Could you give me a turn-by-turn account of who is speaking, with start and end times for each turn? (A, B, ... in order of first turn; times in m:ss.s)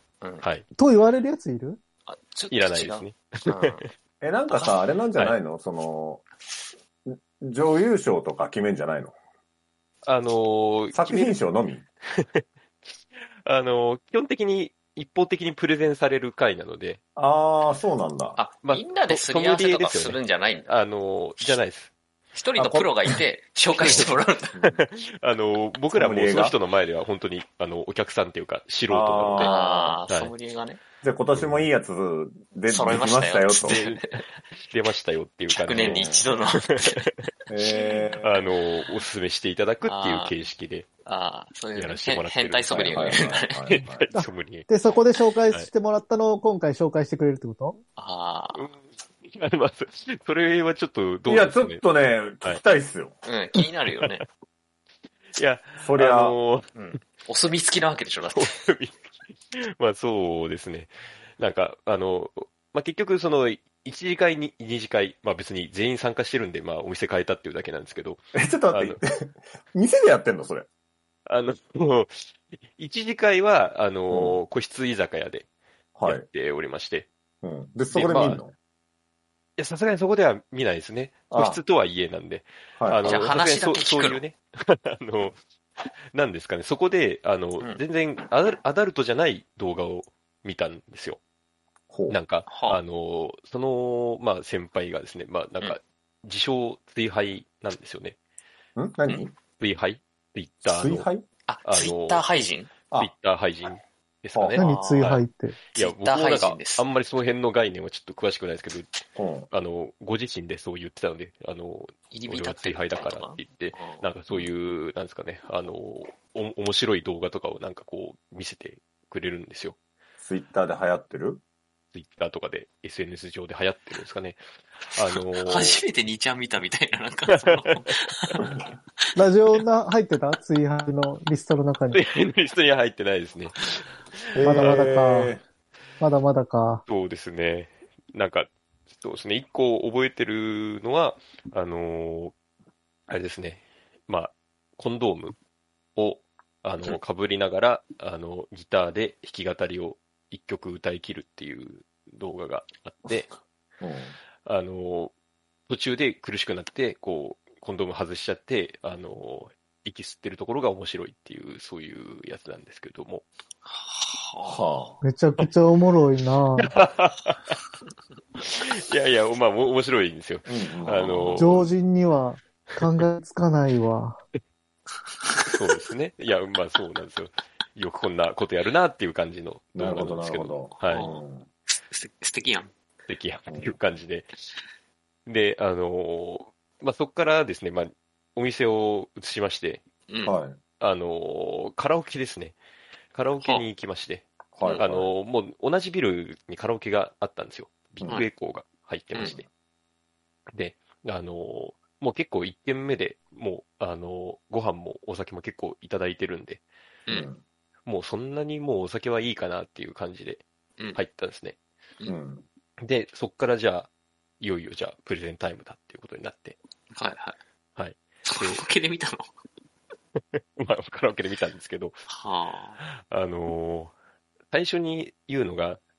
0:00.8-0:01.8 A
0:02.1-0:03.8 B
0:02.5-0:03.9 C
0:04.2-0:06.2 D
0:07.1-0:09.2 D
0:10.0-0:11.4 C
0:10.9-0:11.8 D
0:12.2-0:12.4 C
0:13.2-0:17.0 C
0:17.2-0:18.4 D
0:18.4-0:20.7 B
0:18.6-0:21.9 C
0:22.3-0:24.6 B
0:22.6-0:22.9 D
0:23.8-0:29.5 C
0:23.8-0:24.8 D
0:25.9-0:26.6 D
0:28.9-0:30.0 D
0:29.4-0:30.8 B
0:31.0-0:33.8 D
0:31.4-0:31.7 C
0:32.7-0:34.2 B
0:33.6-0:36.2 C
0:35.5-0:37.0 B
0:35.8-0:36.3 D
0:36.7-0:37.3 C
0:37.5-0:38.5 D
0:37.6-0:38.2 B
0:38.2-0:40.9 C
0:39.8-0:40.3 B
0:41.0-0:43.7 B
0:41.8-0:44.7 C
0:42.7-0:44.1 D
0:44.1-0:47.8 A
0:48.0-0:48.7 B
0:48.6-0:51.8 C
0:51.3-0:53.2 D
0:53.2-0:54.2 B
0:53.6-0:54.1 C
0:55.4-0:56.7 C
0:55.8-0:56.4 D
0:56.8-0:58.6 B
0:58.3-1:09.0 C
1:08.3-1:10.7 D
1:11.3-1:15.5 C
1:14.1-1:14.4 D
1:16.0-1:16.2 D
1:16.0-1:17.1 C
1:17.4-1:18.5 D
1:17.9-1:18.4 C
1:19.6-1:25.4 C
1:21.3-1:21.6 D
1:22.8-1:23.2 D
1:23.1-1:24.2 B
1:26.1-1:31.2 C
1:31.9-1:32.2 D
1:32.1-1:38.2 C
1:32.5-1:32.8 B
1:38.8-1:39.3 D
1:39.6-1:41.1 C
1:40.6-1:41.2 D
1:41.5-1:42.7 B
1:41.6-1:42.2 C
1:43.0-1:45.2 C
1:44.3-1:44.6 D
1:44.6-1:45.6 A
1:44.6-1:45.1 B
1:45.7-1:48.9 C
1:45.8-1:46.8 B
1:49.2-1:49.5 D
1:49.5-1:59.8 C
1:52.1-1:54.0 B
2:00.2-2:01.4 D
2:01.9-2:05.8 C
2:05.4-2:08.4 B
2:07.4-2:08.4 C
2:08.4-2:08.6 D
2:09.2-2:12.0 A
2:11.9-2:14.9 C
2:14.4-2:15.4 D
2:14.4-2:15.3 A
2:16.0-2:16.8 A
2:16.9-2:22.3 C
2:23.1-2:25.4 C
2:26.0-2:33.3 C
2:33.8-2:34.2 D
2:34.4-2:35.1 C
2:35.7-2:43.2 C
2:43.7-2:44.9 B
2:44.4-2:45.0 D
2:45.0-2:46.7 A
2:46.6-2:47.6 C
2:48.4-2:51.6 C
2:50.5-2:51.7 D
2:51.4-2:54.2 A
2:55.5-3:01.1 C
2:59.8-3:01.5 D
3:00.9-3:01.2 B
3:01.9-3:02.7 B
3:03.1-3:04.3 C
3:05.3-3:09.8 C
3:10.1-3:10.4 B
3:10.2-3:10.6 D
3:10.8-3:12.6 C
3:13.1-3:19.5 C
3:14.5-3:15.1 D
3:19.2-3:19.4 B
3:20.5-3:26.6 C
3:27.1-3:27.4 D
3:27.9-3:30.4 C
3:31.0-3:31.6 C
3:32.1-3:32.4 D
3:32.8-3:33.9 C
3:34.4-3:36.6 C
3:36.9-3:37.4 B
3:37.8-3:38.6 C
3:38.3-3:39.3 B
3:40.3-3:42.1 C
3:42.1-3:42.8 B
3:42.8-3:43.9 C
3:44.5-3:45.8 C